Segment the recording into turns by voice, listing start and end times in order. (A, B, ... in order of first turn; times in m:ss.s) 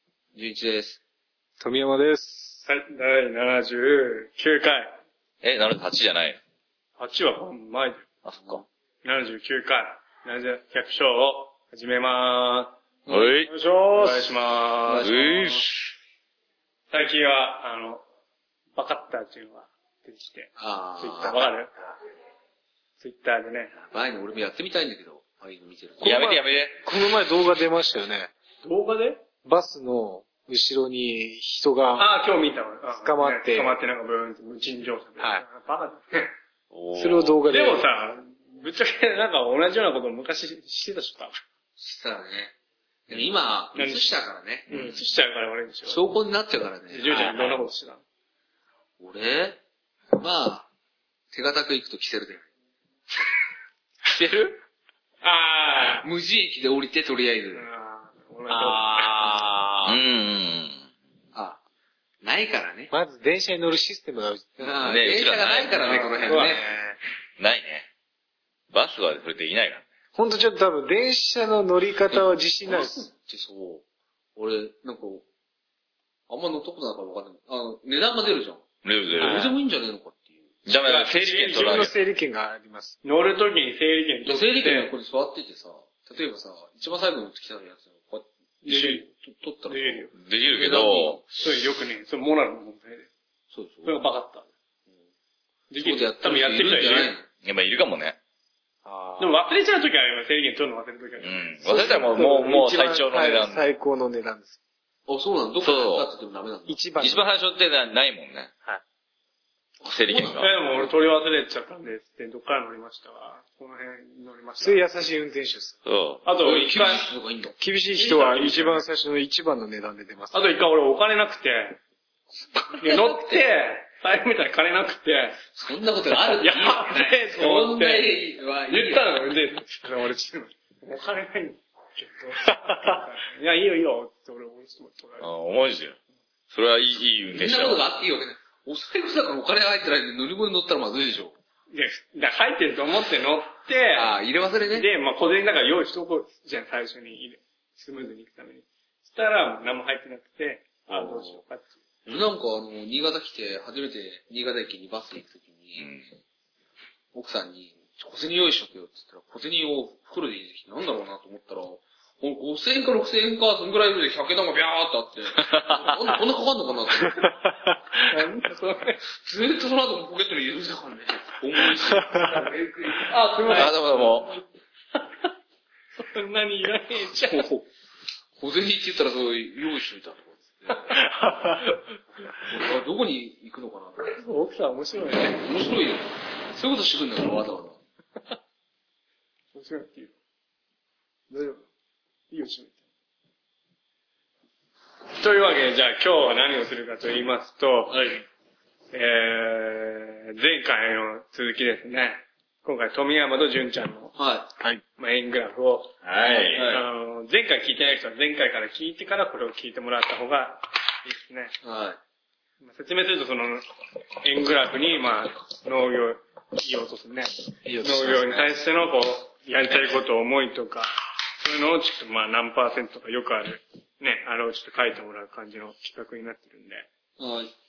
0:00.3-0:01.0 A
0:01.6-0:02.6 B
0:02.7-0:05.0 C
0:05.4-0:06.4 D
0:07.0-0:08.0 C
0:08.2-0:08.6 D
0:09.0-0:12.8 C
0:13.1-0:13.3 A
0:13.1-0:13.5 D
0:13.4-0:15.2 C
0:14.8-0:15.6 A
0:15.0-0:15.7 D
0:16.9-0:18.0 C
0:18.7-0:21.7 C
0:20.6-0:21.5 A
0:23.0-0:23.7 C
0:23.7-0:26.2 A
0:26.0-0:26.8 D
0:26.0-0:28.3 B
0:28.6-0:29.2 C
0:29.4-0:32.1 B
0:32.0-0:36.3 C
0:33.0-0:33.8 B
0:36.7-0:37.4 D
0:36.9-0:37.9 B
0:37.5-0:41.4 C
0:41.8-0:42.5 A
0:43.1-0:45.0 A
0:43.7-0:44.1 C
0:44.7-0:46.1 C
0:45.8-0:47.7 A
0:46.9-0:48.0 C
0:49.0-0:49.6 A
0:50.2-0:50.7 A
0:51.3-0:52.4 A
0:54.1-0:54.6 A
0:55.2-0:56.1 C
0:56.0-0:57.6 A
0:57.5-0:59.4 C
0:58.5-1:00.0 A
0:59.8-1:00.8 D
1:01.3-1:01.6 A
1:02.2-1:02.9 A
1:02.9-1:04.7 B
1:04.6-1:06.6 A
1:04.8-1:06.1 D
1:05.8-1:07.0 B
1:06.3-1:06.6 C
1:07.4-1:07.9 D
1:08.7-1:09.8 D
1:10.1-1:13.1 B
1:13.0-1:13.8 A
1:14.4-1:15.2 A
1:16.3-1:20.5 A
1:18.8-1:19.5 D
1:19.2-1:19.5 B
1:20.6-1:21.9 D
1:20.7-1:21.8 C
1:21.5-1:23.0 B
1:23.0-1:24.9 C
1:24.2-1:31.2 A
1:28.6-1:29.1 C
1:29.7-1:30.1 C
1:30.2-1:31.2 D
1:31.3-1:33.1 C
1:33.5-1:34.0 A
1:33.8-1:34.5 C
1:35.7-1:37.1 C
1:35.8-1:37.2 A
1:37.4-1:38.2 D
1:38.8-1:39.3 B
1:39.2-1:41.9 C
1:41.2-1:43.6 D
1:41.6-1:44.6 B
1:45.1-1:46.8 A
1:45.6-1:46.1 D
1:46.7-1:47.2 B
1:47.0-1:48.5 D
1:49.8-1:50.5 D
1:49.9-1:50.9 A
1:50.3-1:54.9 C
1:54.6-1:55.8 B
1:55.8-1:56.2 D
1:56.2-1:57.1 C
1:56.4-1:57.5 A
1:57.6-2:00.5 B
1:57.9-1:58.8 C
2:00.3-2:01.8 C
2:02.7-2:03.4 A
2:02.7-2:05.4 C
2:05.5-2:09.2 A
2:06.2-2:15.3 C
2:15.2-2:16.0 D
2:16.5-2:17.8 D
2:17.3-2:21.3 A
2:21.7-2:24.1 C
2:23.9-2:24.9 A
2:24.7-2:31.8 C
2:30.9-2:31.4 A
2:32.0-2:35.9 A
2:35.8-2:36.1 D
2:37.1-2:47.3 A
2:45.4-2:46.1 D
2:47.2-2:48.0 B
2:48.0-2:49.0 C
2:49.2-2:54.0 A
2:53.1-2:53.8 C
2:53.4-2:54.4 D
2:56.0-2:57.5 C
2:57.2-2:57.7 A
2:58.4-3:00.9 A
3:00.9-3:01.8 C
3:02.4-3:04.2 A
3:04.0-3:05.4 C
3:05.1-3:07.8 A
3:09.5-3:10.1 C
3:11.3-3:11.6 C
3:12.3-3:12.8 C
3:15.1-3:18.2 C
3:18.9-3:24.1 C
3:24.2-3:24.5 A
3:25.0-3:31.5 C
3:26.0-3:26.8 D
3:31.6-3:32.0 A
3:32.6-3:33.7 C
3:34.2-3:46.9 C
3:37.6-3:38.6 B
3:47.2-3:47.5 A